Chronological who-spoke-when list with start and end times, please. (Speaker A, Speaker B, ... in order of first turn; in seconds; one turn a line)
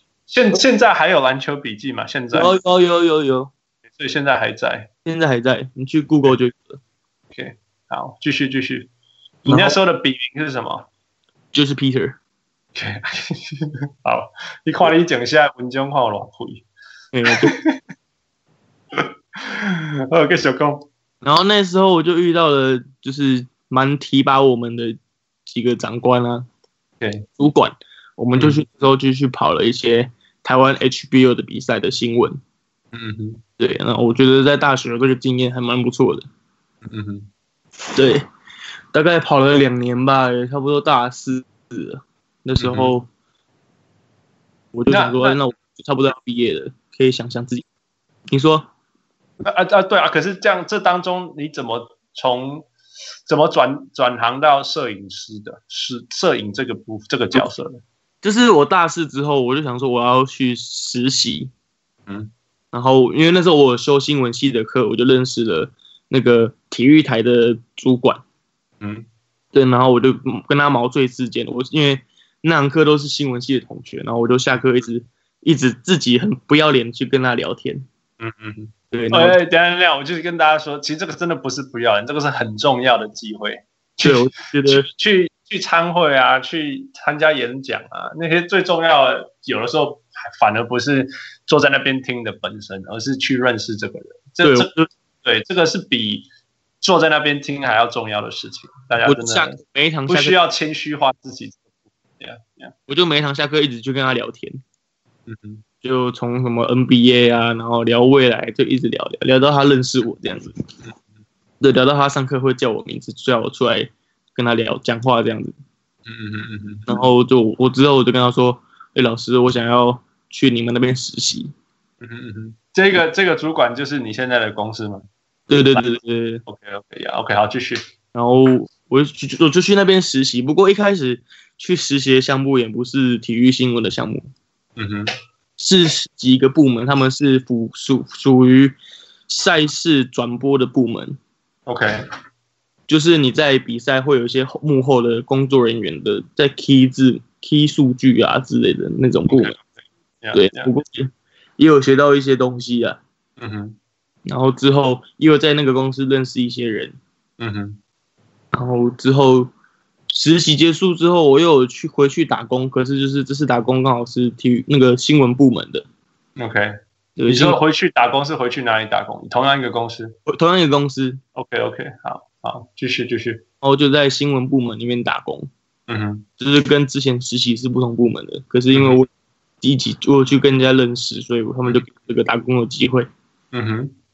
Speaker A: 0.3-2.5
Speaker B: 2.3-3.5
Speaker A: 3.9-4.9
Speaker B: 5.0-6.8
Speaker A: 7.3-8.9
Speaker A: 9.4-10.9
Speaker B: 9.4-9.8
Speaker B: 11.5-12.2
Speaker A: 12.8-16.6
Speaker B: 17.1-17.6
Speaker A: 17.4-17.8
Speaker A: 18.9-20.9
Speaker B: 21.2-26.4
Speaker A: 27.0-27.3
Speaker B: 27.4-32.4
Speaker A: 28.4-28.6
Speaker A: 32.9-33.4
Speaker B: 33.6-36.3
Speaker A: 36.9-37.3
Speaker B: 37.9-38.2
Speaker B: 38.9-43.1
Speaker A: 42.6-42.9
Speaker B: 44.7-47.6
Speaker A: 44.9-45.4
Speaker B: 48.3-48.7
Speaker A: 49.4-52.7
Speaker A: 53.3-57.8
Speaker B: 58.2-61.5
Speaker A: 62.1-62.3
Speaker B: 62.7-68.2
Speaker A: 68.8-69.1
Speaker B: 69.5-77.9
Speaker A: 78.2-94.7
Speaker B: 78.9-79.4
Speaker B: 84.0-84.9
Speaker B: 94.4-94.9
Speaker A: 95.2-96.3
Speaker A: 96.8-99.6
Speaker B: 99.0-100.4
Speaker A: 100.1-101.6
Speaker A: 102.2-102.7
Speaker B: 102.9-104.6
Speaker A: 105.3-105.6
Speaker B: 105.8-110.5
Speaker B: 111.6-115.5
Speaker A: 116.1-117.0
Speaker B: 116.9-121.5
Speaker A: 122.0-125.0
Speaker B: 125.5-126.4
Speaker A: 125.6-125.9
Speaker A: 126.5-127.8
Speaker B: 128.1-134.3
Speaker A: 134.8-135.1
Speaker B: 135.6-138.8
Speaker B: 139.3-141.2
Speaker A: 141.7-142.1
Speaker B: 142.9-149.6
Speaker A: 149.3-149.6
Speaker A: 150.2-150.7
Speaker B: 150.3-153.0
Speaker A: 153.4-153.8
Speaker B: 154.2-157.0
Speaker A: 157.4-157.8
Speaker B: 158.5-159.5
Speaker B: 160.1-165.8
Speaker A: 166.4-166.7
Speaker B: 167.2-167.6
Speaker A: 167.3-170.1
Speaker B: 170.3-171.2
Speaker A: 171.4-173.4
Speaker B: 173.6-175.5
Speaker A: 175.9-176.2
Speaker B: 176.4-179.1
Speaker A: 178.7-179.0
Speaker B: 179.6-183.1
Speaker A: 183.5-183.9